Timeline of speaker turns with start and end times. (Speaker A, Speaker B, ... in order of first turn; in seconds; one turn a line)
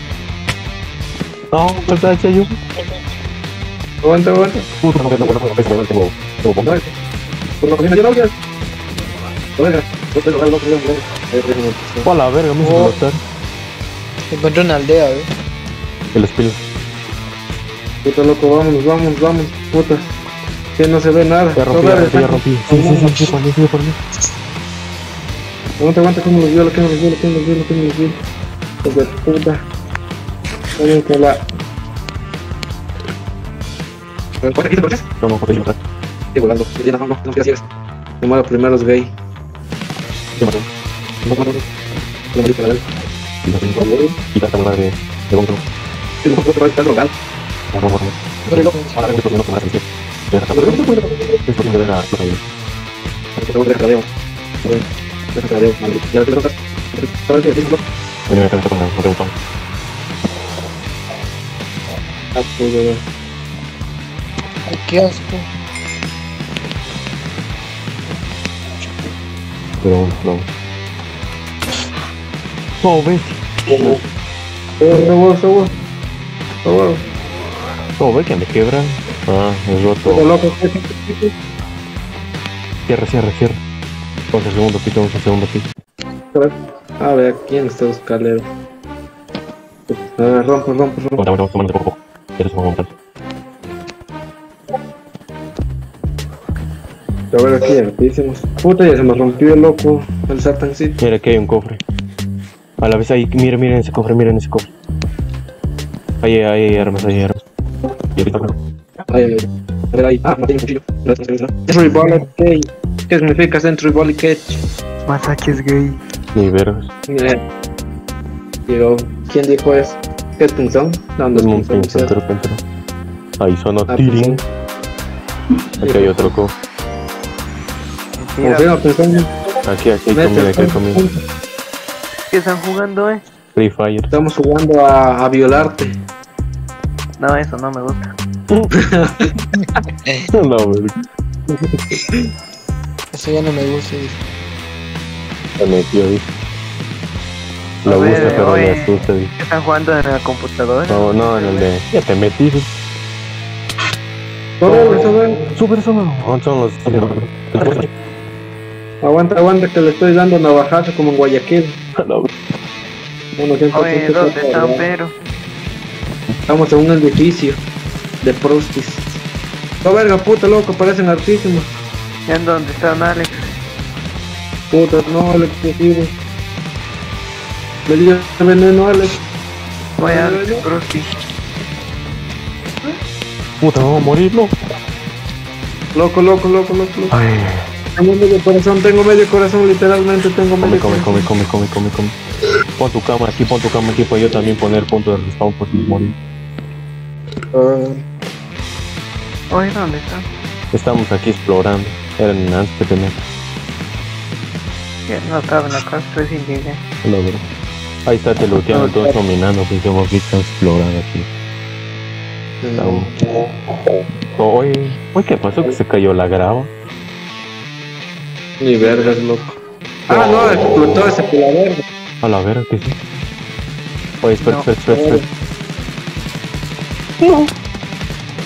Speaker A: 1.5-2.6
Speaker B: 4.0-4.7
Speaker A: 4.8-6.8
Speaker B: 6.6-6.9
Speaker B: 7.6-8.3
Speaker B: 9.6-12.1
Speaker A: 12.0-13.2
Speaker C: 12.6-12.9
Speaker C: 14.3-15.3
Speaker A: 16.1-16.6
Speaker B: 18.0-20.0
Speaker B: 20.8-23.3
Speaker A: 21.6-24.0
Speaker B: 25.8-28.2
Speaker B: 28.8-29.6
Speaker B: 30.8-31.4
Speaker B: 34.4-35.0
Speaker A: 35.2-35.8
Speaker B: 36.3-37.6
Speaker B: 38.2-39.1
Speaker A: 40.4-40.6
Speaker B: 41.2-41.6
Speaker B: 42.3-42.9
Speaker A: 43.5-45.6
Speaker B: 43.7-44.1
Speaker B: 46.2-47.1
Speaker A: 47.7-50.8
Speaker C: 48.5-49.0
Speaker B: 50.5-51.4
Speaker A: 51.5-52.4
Speaker B: 53.4-54.1
Speaker B: 55.3-57.8
Speaker A: 58.3-59.3
Speaker B: 62.3-63.0
Speaker C: 64.7-65.5
Speaker A: 69.8-70.5
Speaker A: 72.8-74.0
Speaker B: 73.7-74.0
Speaker B: 74.8-75.7
Speaker B: 76.6-77.0
Speaker A: 78.0-80.3
Speaker B: 80.1-81.3
Speaker A: 82.9-83.6
Speaker A: 84.3-85.7
Speaker B: 86.3-88.5
Speaker B: 89.9-91.2
Speaker A: 91.2-92.9
Speaker B: 97.3-101.0
Speaker A: 101.0-101.8
Speaker A: 102.8-104.7
Speaker A: 106.2-107.4
Speaker A: 108.2-108.5
Speaker B: 109.1-114.6
Speaker D: 115.1-116.0
Speaker A: 116.3-116.9
Speaker B: 117.1-117.4
Speaker B: 118.7-122.1
Speaker A: 121.3-122.6
Speaker A: 123.4-124.4
Speaker B: 123.9-124.4
Speaker A: 125.8-126.5
Speaker B: 125.8-126.3
Speaker D: 128.2-128.7
Speaker B: 128.4-129.3
Speaker A: 129.6-131.0
Speaker B: 130.1-131.2
Speaker D: 132.3-133.2
Speaker A: 133.5-134.1
Speaker B: 134.1-136.0
Speaker D: 137.2-138.1
Speaker B: 138.7-139.3
Speaker A: 140.3-141.0
Speaker C: 143.1-144.2
Speaker A: 145.6-146.2
Speaker A: 147.8-149.3
Speaker D: 147.8-151.7
Speaker B: 148.1-148.4
Speaker A: 150.9-152.7
Speaker B: 154.6-155.5
Speaker A: 154.7-155.0
Speaker A: 155.5-157.9
Speaker B: 159.0-161.8
Speaker A: 162.0-162.3
Speaker B: 163.4-164.8
Speaker D: 163.7-165.1
Speaker B: 166.5-167.6
Speaker B: 168.2-169.2
Speaker B: 169.8-171.7
Speaker D: 172.3-173.4
Speaker B: 174.7-176.1
Speaker B: 177.8-179.2
Speaker B: 180.0-180.7
Speaker D: 180.0-181.1
Speaker A: 183.6-184.5
Speaker B: 185.9-187.1
Speaker A: 187.1-187.7
Speaker B: 187.9-191.3
Speaker A: 190.6-192.1
Speaker A: 192.8-196.1
Speaker C: 197.5-198.0
Speaker D: 199.5-200.2
Speaker A: 200.7-203.2
Speaker D: 205.1-206.8
Speaker A: 207.0-207.4
Speaker A: 208.1-211.3
Speaker B: 212.6-213.1
Speaker A: 212.8-213.1
Speaker A: 214.4-216.7
Speaker B: 218.6-219.6
Speaker B: 220.1-221.8
Speaker A: 220.1-221.1
Speaker A: 222.2-222.9
Speaker A: 224.2-225.2
Speaker D: 224.4-224.7
Speaker B: 224.9-225.2